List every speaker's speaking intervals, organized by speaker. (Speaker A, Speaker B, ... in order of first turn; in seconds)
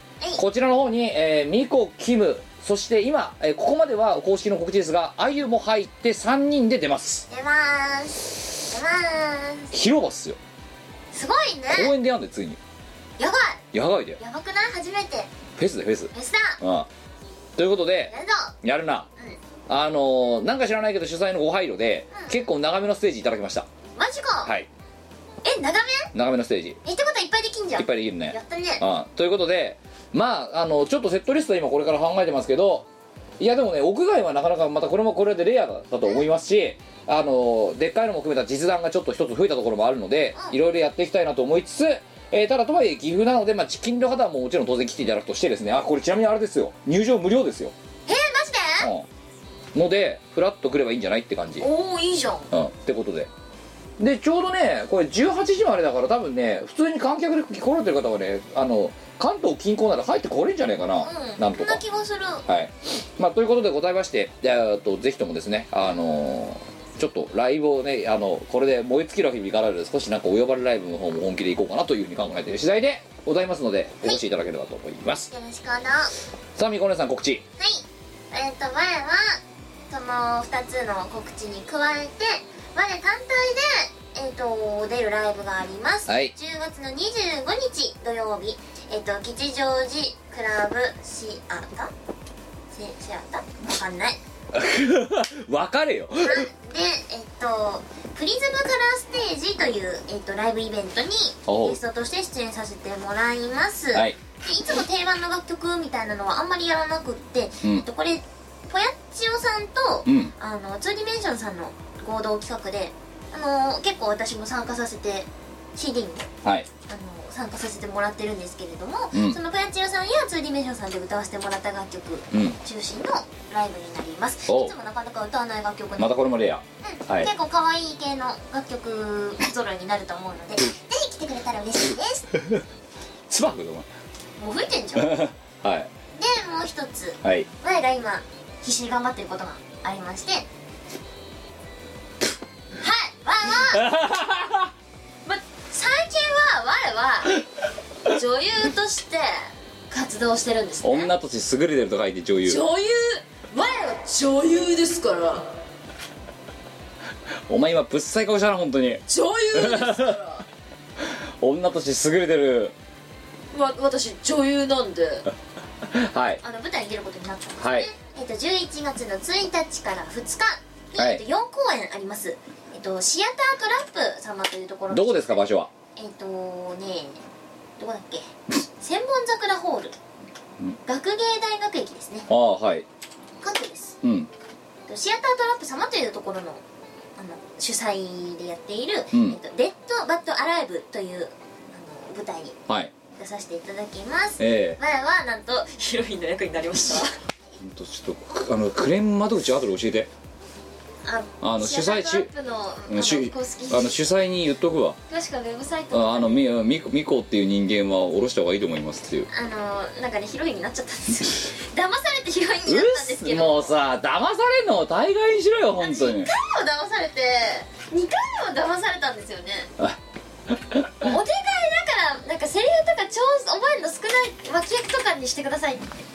Speaker A: 0.3-7.2, 9.7-10.4, 11.7-12.6, 13.7-14.2, 15.6-16.9, 17.6-19.1, 19.7-23.7, 26.1-26.8, 27.8-32.9, 33.4-47.7, 48.8-49.0, 49.7-51.7, 52.5-53.3, 54.0-61.8, 62.5-75.3, 76.5-77.4, 86.1-86.3, 94.5-96.5, 101.5-101.8, 103.9-104.2, 110.0-110.3, 119.1-119.4, 122.3-122.6, 124.5-124.7, 126.0-127.3, 133.3-133.9, 134.9-135.9, 143.7-144.7, 150.8-152.7, 157.5-160.2, 161.4-162.7, 165.9-166.4, 167.6-167.9, 170.9-171.2, 174.9-175.7, 182.3-182.8, 184.0-184.3, 189.1-189.4, 194.4-194.8, 197.6-200.1, 201.4-202.3, 202.9-205.0, 205.9-209.3, 212.7-216.3, 220.5-220.9
Speaker B: 7.3-9.7, 11.1-11.9, 13.2-13.6, 14.2-15.3, 16.1-16.6, 18.1-18.5, 22.1-22.4, 23.9-24.5, 25.4-26.1, 26.8-28.8, 48.0-48.9, 51.6-52.5, 61.0-62.4, 75.3-76.1, 77.6-91.9, 92.7-94.2, 96.2-116.3, 116.9-126.2, 126.8-132.3, 134.4-135.3, 136.1-140.5, 142.8-143.8, 145.2-147.4, 148.0-151.1, 166.4-175.4, 175.9-177.2, 177.8-179.9, 180.8-182.3, 183.4-184.0, 184.9-186.6, 187.2-192.6, 193.1-197.2, 201.0-204.1, 205.1-206.4, 209.3-213.8, 215.8-219.7, 221.0-225.9
Speaker C: 152.4-155.5, 159.1-160.4, 163.5-165.2